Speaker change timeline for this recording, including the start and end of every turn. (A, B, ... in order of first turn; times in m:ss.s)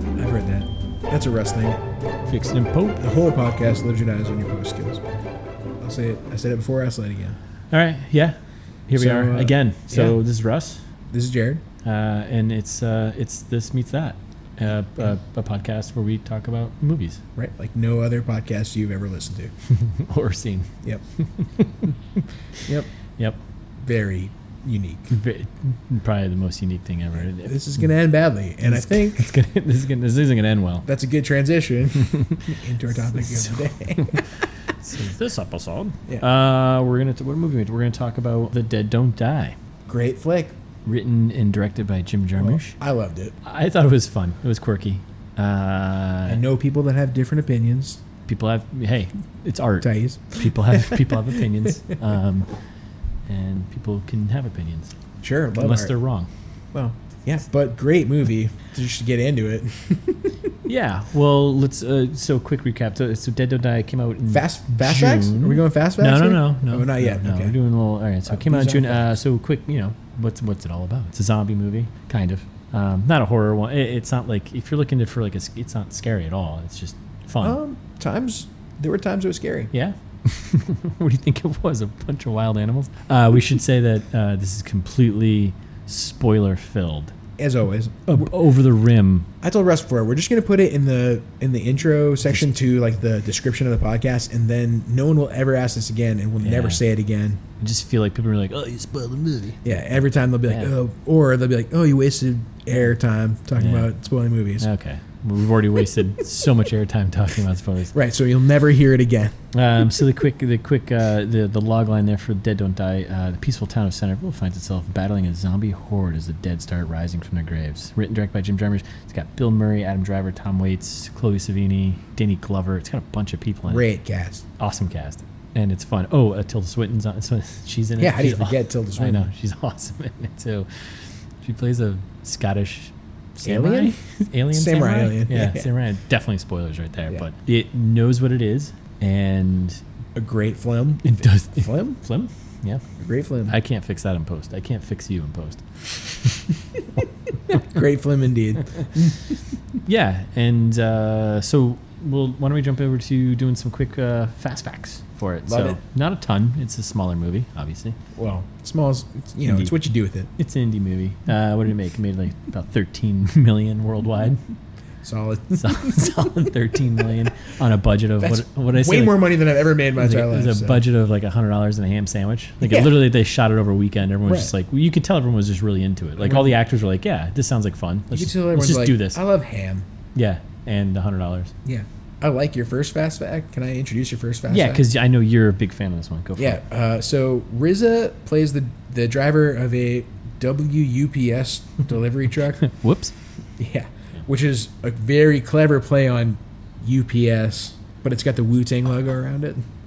0:00.2-0:01.8 A
0:02.3-0:03.0 B
0:03.0-0:05.0 A
0:05.8-0:07.4 A
0:07.7-0:08.4 B
0:08.9-0:10.8 B
0:08.9-0:10.2 A
0:11.1-0:11.6 A
0:11.8-0:17.2 B
0:17.4-0:19.5 A
0:19.7-0:22.6 B
0:22.6-0:22.9 A
0:23.8-0:25.1 A
0:25.1-0:27.6 B
0:27.2-0:29.3 A
0:28.6-0:30.9 B
0:30.8-0:34.4 A
0:32.1-0:32.6 B
0:33.2-0:39.6 B
0:39.9-0:40.6 A
0:40.8-0:42.8 B
0:42.4-0:43.4 A
0:43.4-0:46.4 B
0:46.3-0:48.0 A
0:48.3-0:52.6 B
0:49.8-0:51.4 A
0:53.3-0:54.9 B
0:55.2-0:55.9 A
0:55.6-0:56.3 B
0:56.7-1:00.5 A
1:00.6-1:17.6 B
1:04.3-1:07.6 A
1:08.3-1:09.1 A
1:17.4-1:19.7 A
1:19.7-1:27.2 B
1:27.4-1:28.3 A
1:28.1-1:29.3 B
1:29.4-1:37.4 A
1:36.4-1:36.8 B
1:37.6-1:39.8 B
1:39.6-1:44.7 A
1:40.5-1:40.7 B
1:43.6-1:43.9 B
1:44.6-1:48.0 B
1:47.9-1:49.4 A
1:49.5-2:03.8 B
2:03.7-2:04.4 A
2:04.6-2:10.7 B
2:08.0-2:09.3 A
2:11.4-2:19.8 B
2:13.4-2:15.7 A
2:20.2-2:22.0 A
2:21.0-2:22.8 B
2:23.0-2:23.6 A
2:23.5-2:25.6 B
2:27.5-2:29.4 A
2:29.9-2:38.0 B
2:35.5-2:35.8 A
2:38.2-2:40.3 A
2:39.4-2:39.7 B
2:40.4-2:44.4 B
2:45.0-2:46.0 A
2:45.6-2:49.2 B
2:48.2-2:50.8 A
2:50.0-2:59.2 B
2:52.6-2:52.9 A
2:54.2-2:54.5 A
2:56.2-2:56.6 A
2:58.1-2:59.9 A
3:00.2-3:01.5 B
3:01.6-3:04.8 A
3:04.5-3:06.6 B
3:06.4-3:12.6 A
3:12.6-3:13.2 B
3:13.6-3:19.6 A